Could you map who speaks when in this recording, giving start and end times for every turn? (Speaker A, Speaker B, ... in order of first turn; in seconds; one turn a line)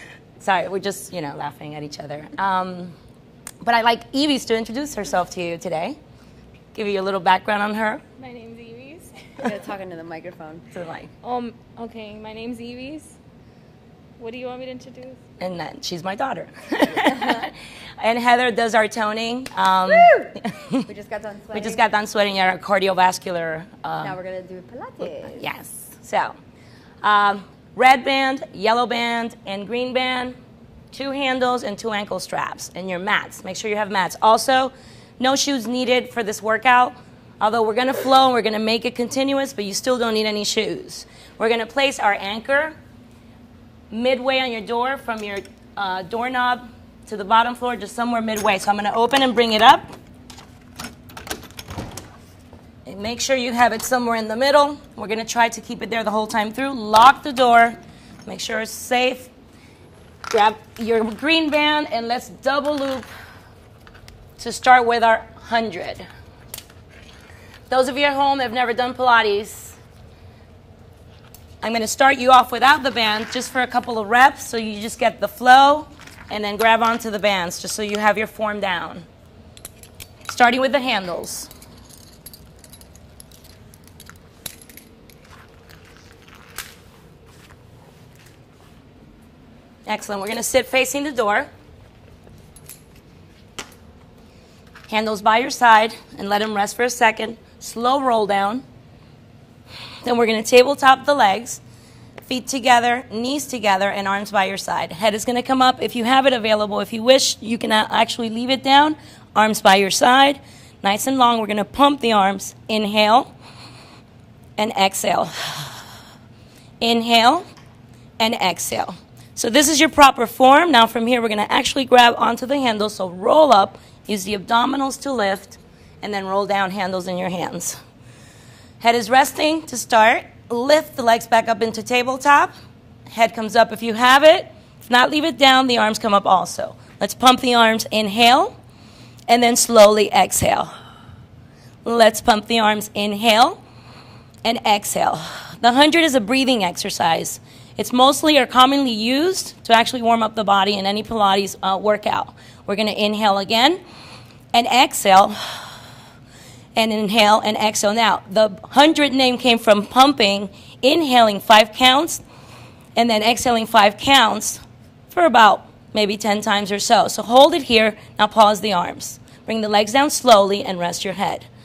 Speaker A: 0.4-3.0
Speaker A: 3.6-6.0
Speaker A: 6.7-8.0
Speaker B: 8.2-9.2
Speaker C: 9.4-10.7
Speaker A: 10.7-11.1
Speaker B: 11.2-13.2
Speaker B: 14.2-15.2
Speaker A: 15.4-20.9
Speaker C: 20.9-21.8
Speaker A: 21.5-24.2
Speaker C: 24.0-25.4
Speaker A: 25.0-26.4
Speaker A: 27.0-30.4
Speaker A: 30.9-42.7
Speaker A: 43.9-49.9
Speaker A: 52.9-59.3
Speaker A: 60.3-63.1
Speaker A: 64.4-66.0
Speaker A: 67.7-69.8
Speaker A: 71.6-79.0
Speaker A: 80.2-81.5
Speaker A: 89.8-91.5
Speaker A: 94.9-98.6
Speaker A: 100.0-101.6
Speaker A: 102.2-113.3
Speaker A: 114.6-115.8
Speaker A: 116.8-117.5
Speaker A: 118.2-127.8
Speaker A: 128.8-132.5
Speaker A: 133.1-138.6
Speaker A: 139.3-140.7
Speaker A: 141.8-143.6
Speaker A: 144.4-153.8
Speaker A: 154.5-155.7
Speaker A: 156.8-162.2
Speaker A: 162.9-171.5